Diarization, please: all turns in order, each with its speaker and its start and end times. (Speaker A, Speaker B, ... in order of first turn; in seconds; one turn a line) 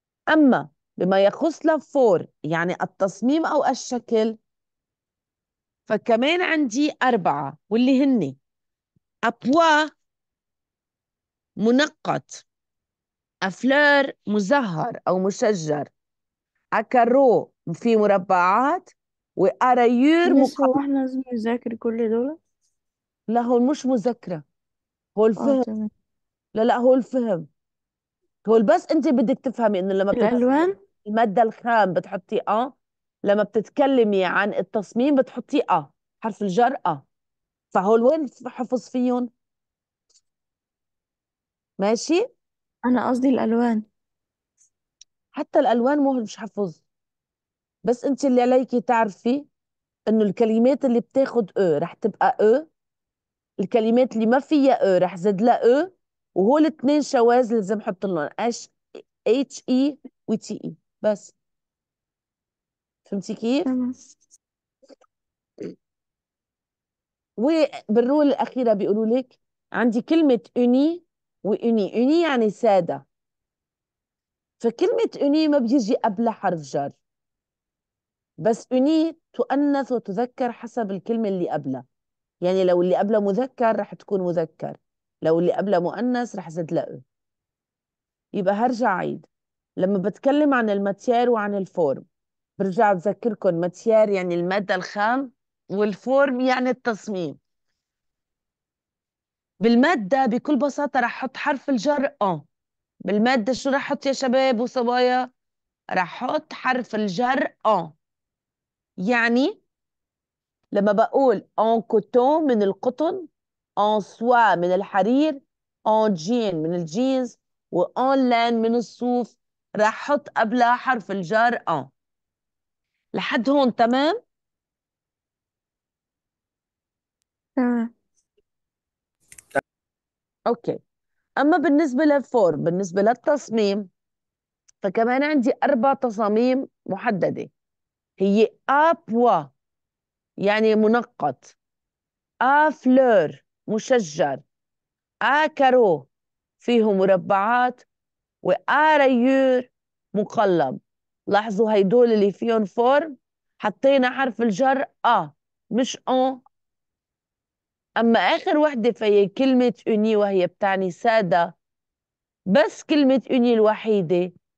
Speaker A: 0.3-4.4
Speaker A: 5.9-8.4
Speaker A: 9.3-9.9
Speaker A: 11.6-12.4
Speaker A: 13.4-15.9
Speaker A: 16.8-20.8
Speaker B: 20.2-22.4
Speaker A: 23.3-24.4
Speaker A: 25.2-25.7
Speaker B: 25.4-25.9
Speaker A: 26.6-27.5
Speaker A: 28.5-37.1
Speaker B: 30.1-30.8
Speaker A: 37.7-39.3
Speaker A: 41.8-42.3
Speaker B: 42.9-43.9
Speaker A: 45.3-46.8
Speaker A: 47.9-49.5
Speaker A: 50.1-52.7
Speaker A: 53.6-61.4
Speaker A: 63.1-63.7
Speaker B: 63.7-64.0
Speaker A: 67.4-73.1
Speaker A: 74.6-77.0
Speaker A: 78.4-81.8
Speaker A: 82.4-87.0
Speaker A: 88.3-92.0
Speaker A: 92.6-97.4
Speaker A: 99.6-102.5
Speaker A: 103.1-105.3
Speaker A: 106.0-108.0
Speaker A: 109.0-109.6
Speaker A: 110.7-121.9
Speaker A: 123.1-124.2
Speaker B: 127.6-127.9
Speaker A: 130.5-130.8
Speaker A: 131.4-133.9
Speaker A: 134.8-137.5
Speaker A: 138.2-139.5
Speaker A: 140.4-141.6
Speaker A: 142.4-144.4
Speaker A: 145.2-146.1
Speaker A: 146.6-147.9
Speaker A: 148.4-156.4
Speaker A: 158.0-161.6
Speaker A: 162.5-164.3